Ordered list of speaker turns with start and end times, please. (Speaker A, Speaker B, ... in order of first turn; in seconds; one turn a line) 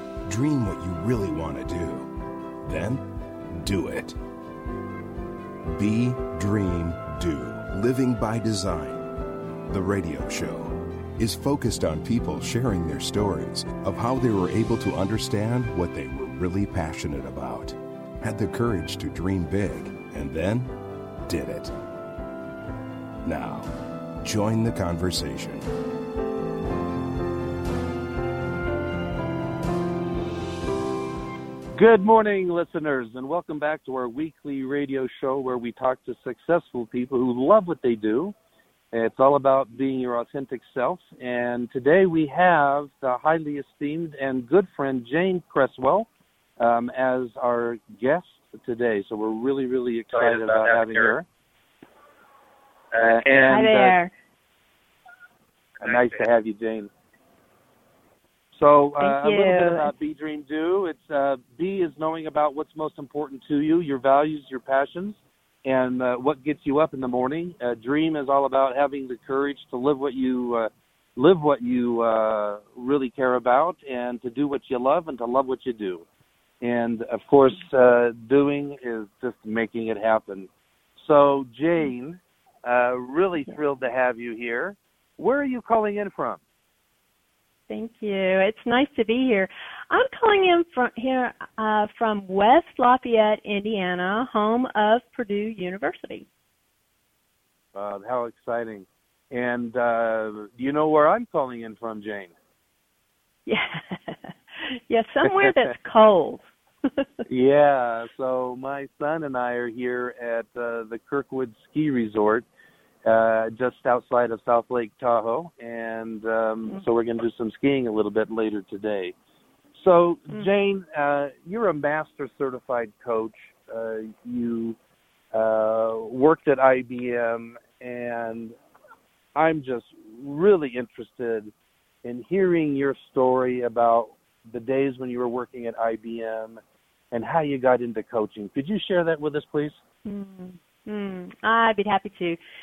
Speaker A: 0.3-2.1
Speaker A: 2.6-3.0
Speaker A: 3.6-4.2
Speaker A: 5.7-9.1
Speaker A: 9.7-20.7
Speaker A: 21.2-21.7
Speaker A: 23.2-23.7
Speaker A: 24.2-25.6
Speaker B: 31.7-38.3
Speaker B: 38.9-46.1
Speaker B: 46.6-51.2
Speaker B: 52.9-53.9
Speaker C: 53.5-54.1
Speaker B: 55.8-56.9
Speaker B: 58.5-76.0
Speaker C: 59.0-59.9
Speaker B: 76.6-86.4
Speaker C: 87.7-96.3
Speaker B: 97.7-102.3
Speaker C: 103.5-106.4
Speaker B: 107.3-112.4
Speaker B: 113.0-119.1
Speaker B: 119.7-124.8
Speaker B: 125.3-128.5
Speaker B: 129.3-131.5
Speaker B: 132.0-136.6
Speaker B: 137.1-139.8
Speaker C: 140.0-142.4